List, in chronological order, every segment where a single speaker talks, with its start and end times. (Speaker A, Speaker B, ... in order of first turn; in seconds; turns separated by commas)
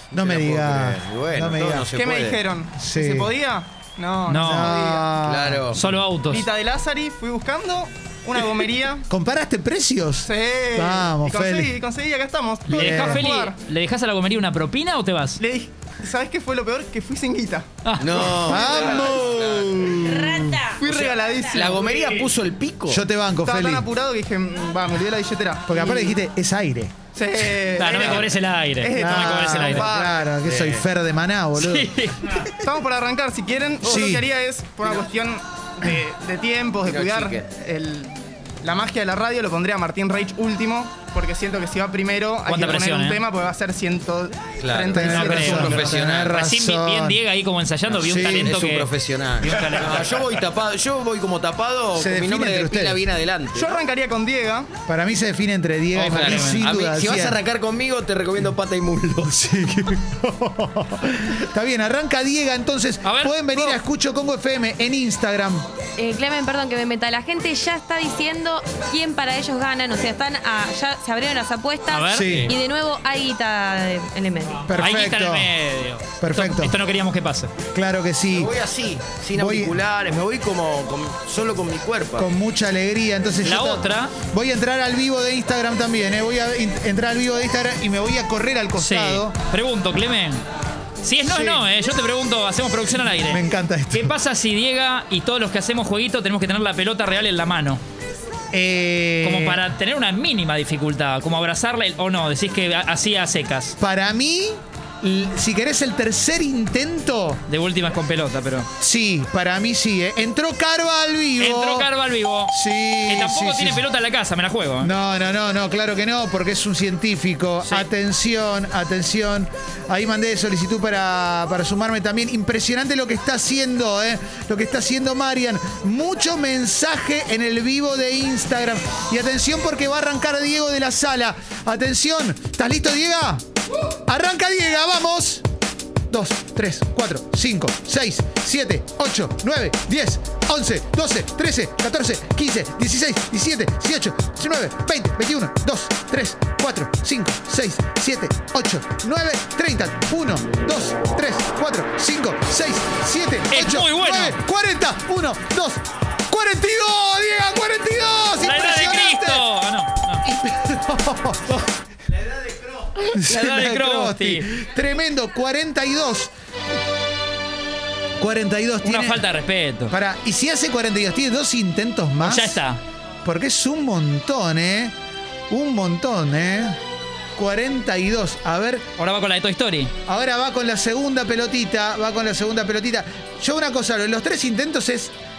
Speaker A: 0.1-2.4, Speaker B: 0.1-1.9, Speaker C: 1.9-5.1, Speaker B: 2.8-3.3, Speaker D: 4.3-4.7, Speaker B: 4.4-5.8, Speaker A: 5.2-5.8, Speaker D: 5.7-6.4, Speaker C: 6.3-9.0, Speaker B: 9.1-11.8, Speaker C: 10.2-13.6, Speaker D: 12.7-15.4, Speaker B: 12.7-13.2, Speaker C: 15.4-17.6, Speaker D: 17.8-18.4, Speaker A: 18.0-20.2, Speaker C: 18.4-19.1, Speaker B: 18.4-20.7, Speaker C: 20.8-22.3, Speaker A: 20.9-23.0, Speaker B: 22.9-23.9, Speaker C: 23.4-26.1, Speaker B: 25.7-26.9, Speaker C: 27.1-30.1, Speaker A: 27.3-28.3, Speaker D: 27.8-29.9, Speaker B: 28.9-31.9, Speaker A: 30.1-30.8, Speaker D: 31.6-32.4, Speaker C: 32.6-45.9, Speaker B: 33.8-34.2, Speaker A: 36.9-37.5, Speaker D: 42.5-43.2, Speaker A: 44.6-46.3, Speaker B: 44.9-47.2, Speaker D: 45.0-48.9, Speaker B: 48.0-48.6, Speaker A: 48.0-53.7, Speaker D: 49.4-50.2, Speaker B: 52.0-53.0, Speaker C: 53.5-54.7, Speaker B: 54.9-57.4, Speaker D: 55.9-56.6, Speaker A: 56.1-59.4, Speaker B: 59.2-65.7, Speaker D: 63.0-63.4, Speaker E: 66.0-74.6, Speaker D: 71.9-72.3, Speaker B: 72.1-72.5, Speaker A: 72.2-72.5, Speaker B: 74.7-75.5, Speaker D: 74.8-77.5, Speaker B: 76.2-76.7, Speaker B: 77.7-78.5, Speaker A: 78.3-82.3, Speaker B: 79.3-79.7, Speaker B: 82.2-89.3, Speaker D: 83.4-84.1, Speaker D: 88.8-90.4, Speaker D: 91.0-97.8, Speaker B: 91.2-91.6, Speaker B: 93.1-94.1, Speaker B: 98.5-99.6, Speaker D: 99.2-103.7, Speaker B: 103.8-107.4, Speaker D: 107.5-108.7, Speaker B: 108.8-111.9, Speaker D: 111.4-112.5, Speaker B: 112.5-113.8, Speaker D: 113.1-114.9, Speaker B: 114.8-133.4, Speaker B: 134.0-135.4, Speaker B: 136.1-159.5, Speaker D: 153.5-154.4, Speaker D: 158.4-160.2, Speaker B: 160.2-161.6, Speaker D: 163.1-164.4, Speaker B: 163.1-166.3, Speaker B: 168.2-169.2, Speaker D: 168.8-169.9, Speaker B: 169.9-172.6, Speaker D: 172.2-172.8, Speaker B: 173.2-174.9, Speaker B: 175.5-176.8, Speaker B: 177.3-178.8, Speaker D: 179.0-179.9, Speaker B: 180.1-185.1